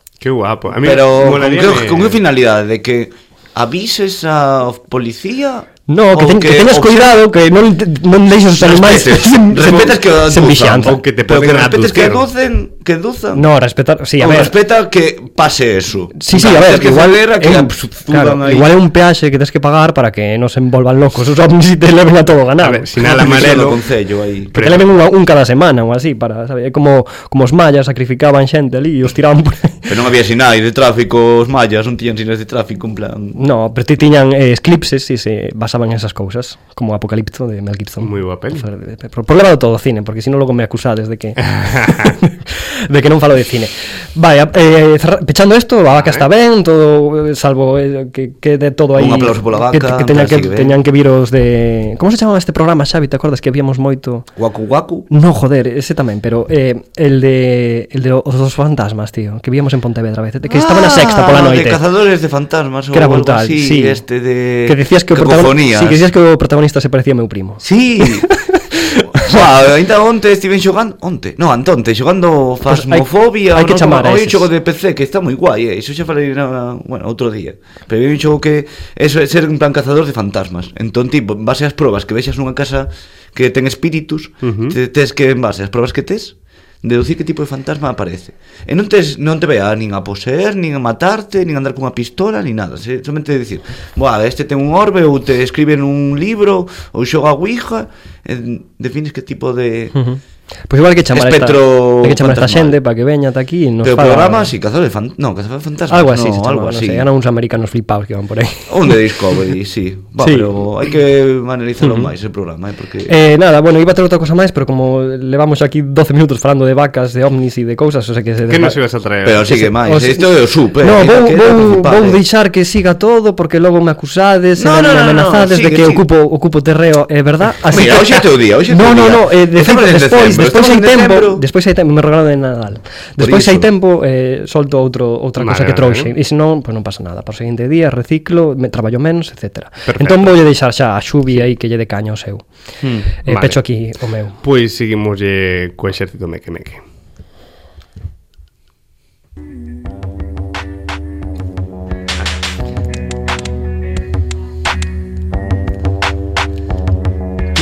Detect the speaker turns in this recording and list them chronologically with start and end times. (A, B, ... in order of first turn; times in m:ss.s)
0:00.2-0:02.2 A
0:00.8-0:07.2 B
0:05.9-0:11.0 C
0:08.5-0:13.4 B
0:10.8-0:12.3 A
0:13.3-0:14.5 C
0:14.2-0:18.7 B
0:16.2-0:23.5 C
0:22.6-0:23.8 A
0:23.0-0:24.5 B
0:24.5-0:24.8 A
0:24.6-0:29.9 C
0:29.9-0:33.4 B
0:33.3-0:54.3 C
0:38.0-0:38.6 A
0:41.4-0:42.1 A
0:45.9-0:46.2 A
0:48.9-0:50.8 B
0:54.4-0:55.1 B
0:55.1-1:01.8 C
1:00.5-1:06.0 B
1:02.9-1:04.0 C
1:04.6-1:09.4 C
1:07.6-1:08.3 B
1:09.1-1:39.9 B
1:12.7-1:14.5 C
1:24.4-1:24.8 A
1:39.9-1:44.5 C
1:41.1-1:42.8 B
1:43.8-1:47.0 B
1:45.9-1:49.0 C
1:48.7-1:53.1 B
1:50.2-1:50.5 C
1:53.1-1:58.8 C
1:58.5-1:59.5 A
1:59.2-2:02.2 B
1:59.5-2:00.3 C
2:00.8-2:22.4 C
2:04.6-2:06.0 B
2:07.7-2:11.4 B
2:13.2-2:13.7 B
2:15.4-2:16.1 A
2:19.9-2:20.3 A
2:22.8-2:23.1 B
2:23.2-2:24.4 C
2:23.3-2:23.6 A
2:24.4-2:26.8 A